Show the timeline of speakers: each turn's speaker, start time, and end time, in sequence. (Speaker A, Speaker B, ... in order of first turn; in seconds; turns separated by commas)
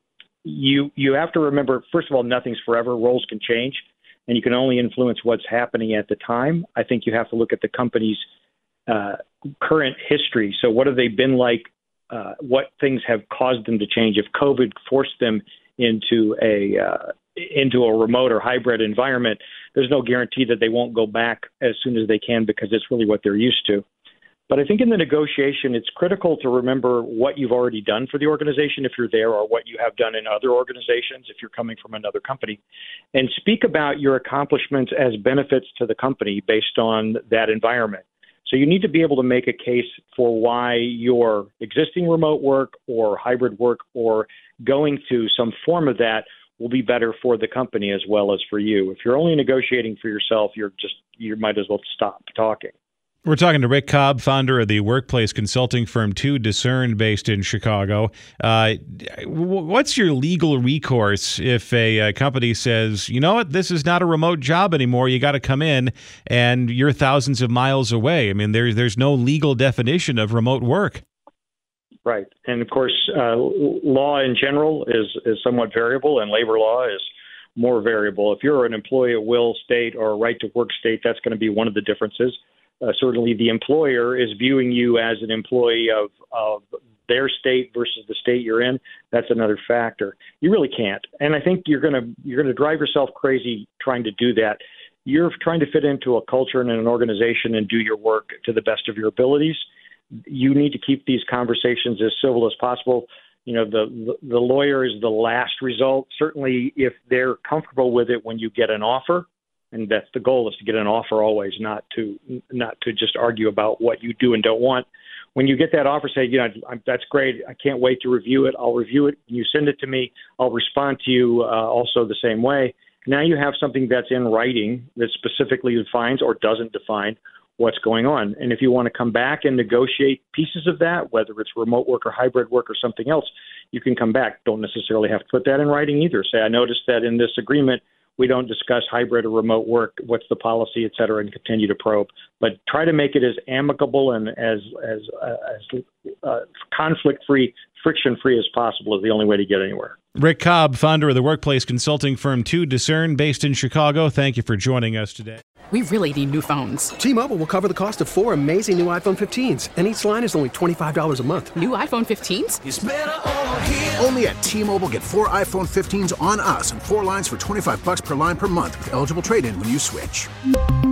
Speaker A: 0.5-8.2, Speaker A: 8.9-23.9, Speaker A: 24.5-32.6, Speaker A: 33.1-52.7, Speaker B: 53.2-71.0, Speaker A: 72.1-99.6, Speaker A: 100.3-150.0, Speaker B: 150.2-155.4, Speaker C: 155.7-156.9, Speaker D: 157.0-161.5, Speaker C: 161.6-162.6, Speaker E: 162.7-170.3